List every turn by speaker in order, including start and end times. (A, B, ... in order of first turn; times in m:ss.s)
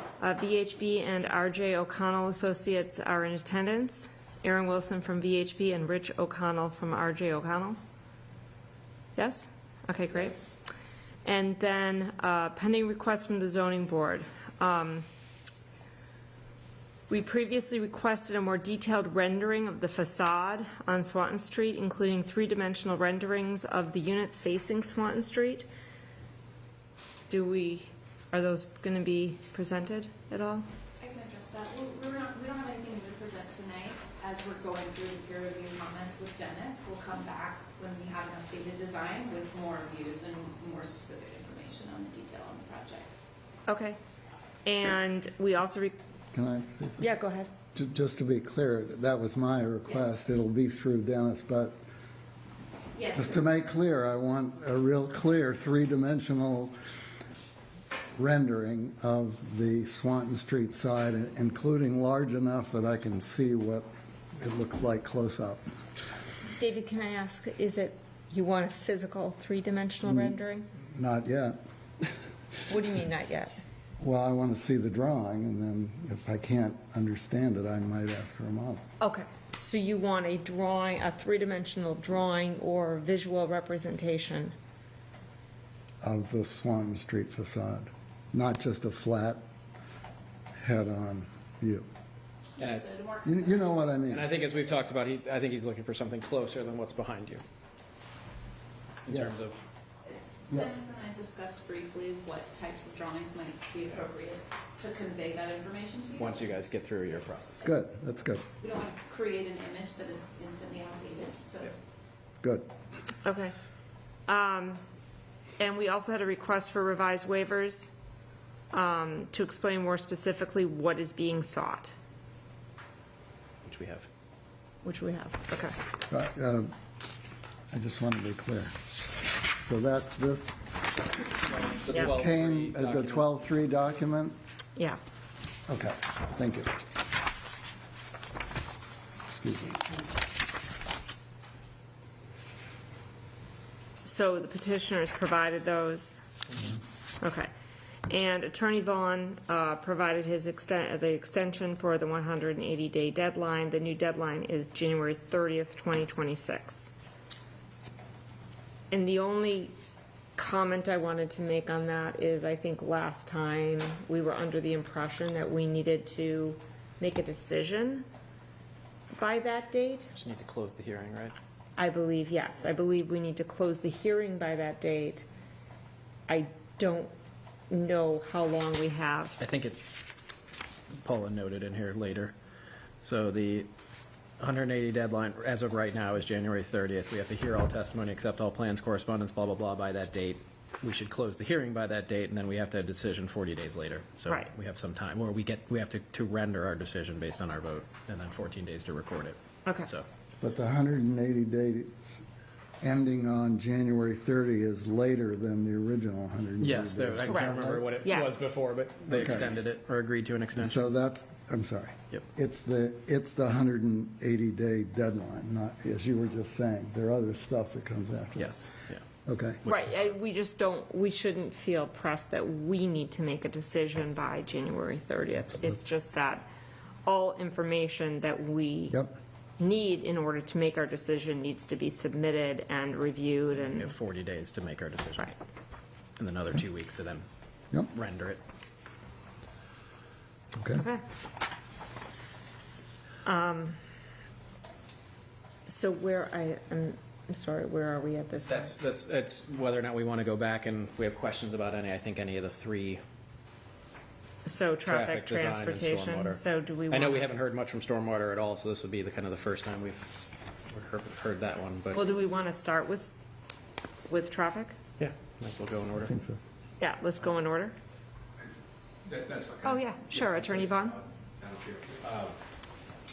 0:00.2-0:07.8 A
0:09.2-0:10.4 A
0:11.2-0:15.0 A
0:17.1-0:25.6 A
0:27.3-0:30.6 A
0:31.0-0:43.2 B
0:43.7-0:44.0 A
0:44.6-0:45.9 A
0:46.3-0:47.1 C
0:47.0-0:47.5 A
0:47.7-0:51.8 C
0:53.0-0:53.3 B
0:53.1-0:56.7 C
0:58.2-1:05.6 C
1:06.6-1:10.7 A
1:10.0-1:10.3 C
1:10.9-1:11.6 C
1:12.7-1:13.5 A
1:14.0-1:18.8 C
1:19.0-1:24.5 A
1:26.0-1:29.4 C
1:30.6-1:31.9 C
1:32.6-1:32.8 D
1:32.6-1:33.6 B
1:33.2-1:34.3 C
1:34.1-1:37.4 D
1:39.0-1:39.6 D
1:40.0-1:46.6 B
1:46.2-1:47.6 D
1:47.6-1:48.4 C
1:48.6-1:51.8 B
1:52.4-1:52.7 C
1:53.2-1:53.5 A
1:54.3-1:54.8 A
1:55.6-1:57.9 A
1:58.7-2:02.0 A
2:03.6-2:04.1 D
2:04.8-2:05.7 A
2:06.1-2:06.7 C
2:07.7-2:08.7 C
2:09.5-2:10.6 C
2:11.4-2:13.3 D
2:11.9-2:14.4 C
2:15.7-2:16.7 C
2:19.3-2:19.8 C
2:24.0-2:26.2 A
2:27.2-2:27.5 A
2:28.1-2:36.9 A
2:38.9-2:39.7 A
2:40.4-2:48.0 A
2:49.1-2:50.1 A
2:50.1-2:51.3 D
2:51.8-2:55.2 A
2:56.3-2:57.1 A
2:57.7-2:59.4 A
2:59.4-2:59.8 D
3:00.9-3:02.3 D
3:03.0-3:03.7 D
3:04.4-3:20.0 D
3:20.4-3:22.1 C
3:22.8-3:28.0 C
3:26.6-3:30.9 D
3:28.0-3:28.4 A
3:29.1-3:29.5 C
3:30.5-3:38.5 C
3:38.4-3:39.0 D
3:39.2-3:39.6 C
3:39.6-3:46.5 A
3:47.0-3:49.0 A
3:49.6-3:54.0 A
3:53.6-3:55.3 D
3:56.2-3:57.2 D
3:57.9-3:58.4 D
4:00.6-4:00.8 C
4:03.2-4:03.8 A
4:05.6-4:08.7 A
4:08.5-4:13.0 D
4:14.4-4:17.3 A
4:14.8-4:20.1 D
4:20.7-4:22.1 D
4:21.9-4:23.1 A
4:24.1-4:24.8 A
4:25.0-4:26.1 D
4:26.0-4:26.4 C
4:26.8-4:27.7 A
4:29.0-4:32.4 E
4:29.6-4:31.0 A